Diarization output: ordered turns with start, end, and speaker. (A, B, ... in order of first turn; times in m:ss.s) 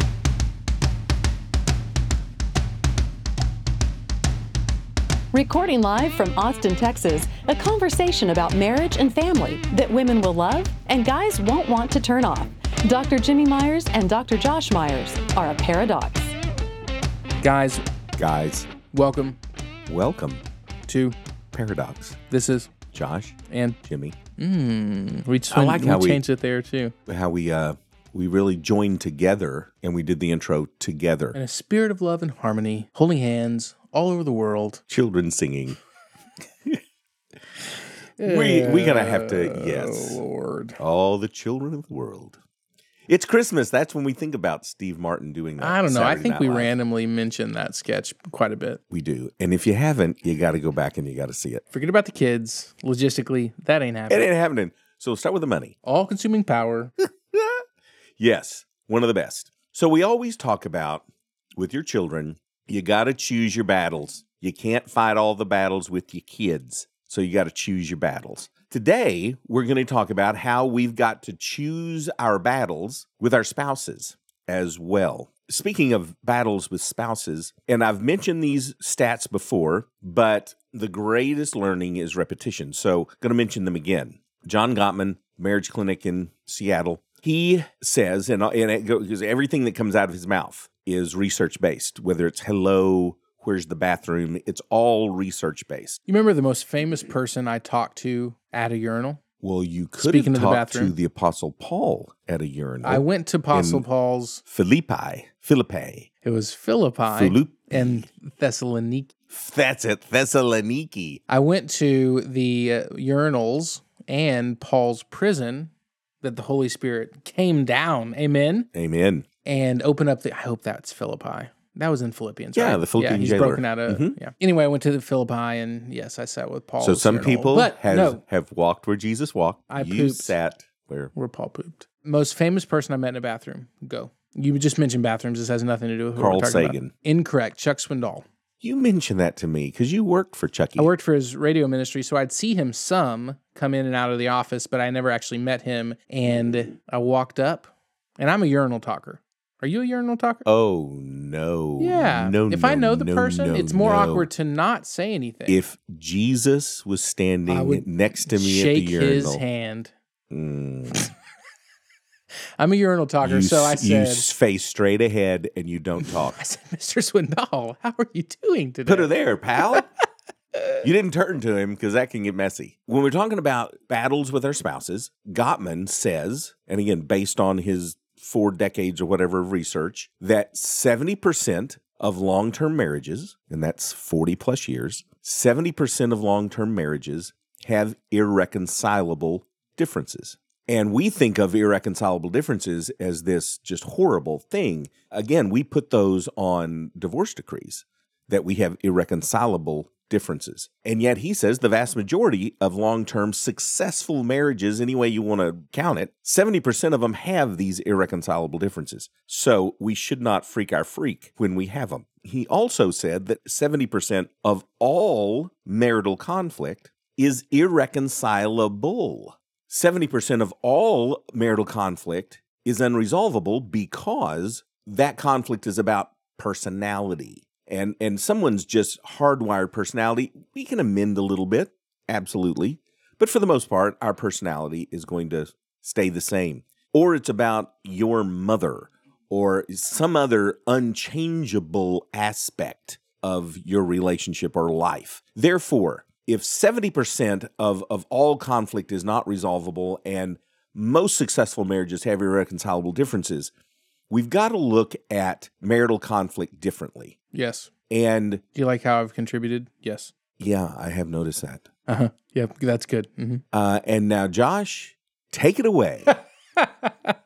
0:05.3-0:16.3 A
0:17.4-0:17.8 B
0:18.2-0:18.7 C
0:18.9-0:19.4 B
0:19.9-0:20.4 C
0:20.9-0:21.2 B
0:21.5-0:22.2 C
0:22.3-0:22.7 B
0:22.9-0:24.2 C
0:23.5-0:23.8 B
0:24.4-0:26.9 B
0:25.5-0:26.2 C
0:27.1-0:31.4 C
0:31.3-0:34.8 B
0:34.9-0:35.8 C
0:38.2-0:40.8 B
0:38.2-0:40.2 C
0:40.8-0:42.4 C
0:43.1-0:46.7 C
0:45.6-0:48.8 B
0:48.9-0:51.6 C
0:51.7-0:54.3 B
0:54.1-0:55.8 C
0:55.8-0:56.9 B
0:57.3-0:57.6 C
0:58.2-1:01.0 C
1:01.6-1:36.0 C
1:36.1-1:39.2 B
1:39.4-1:43.8 C
1:40.0-1:40.9 B
1:42.8-1:44.4 B
1:44.5-1:46.1 C
1:46.2-1:49.1 B
1:47.1-1:48.0 C
1:49.3-1:51.2 C
1:51.3-1:55.7 B
1:56.2-1:58.7 B
1:58.7-1:59.2 C
1:59.4-2:08.2 B
2:02.5-2:04.1 C
2:06.8-2:11.1 C
2:09.7-2:10.4 B
2:11.1-2:18.2 B
2:16.2-2:16.9 C
2:18.6-2:20.9 C
2:20.8-2:30.4 B
2:30.4-2:34.3 C
2:31.8-2:35.6 B
2:35.5-2:39.4 C
2:37.5-2:39.9 B
2:40.3-2:41.1 C
2:42.6-2:44.3 B
2:43.2-2:46.4 C
2:46.0-2:49.1 B
2:48.8-2:49.8 C
2:50.8-4:13.5 C
4:14.1-4:17.2 C
4:17.3-4:17.7 B
4:17.9-4:18.4 C
4:18.5-4:20.1 B
4:20.4-4:21.7 C
4:21.9-4:23.4 B
4:23.5-4:26.1 C
4:26.6-4:27.1 B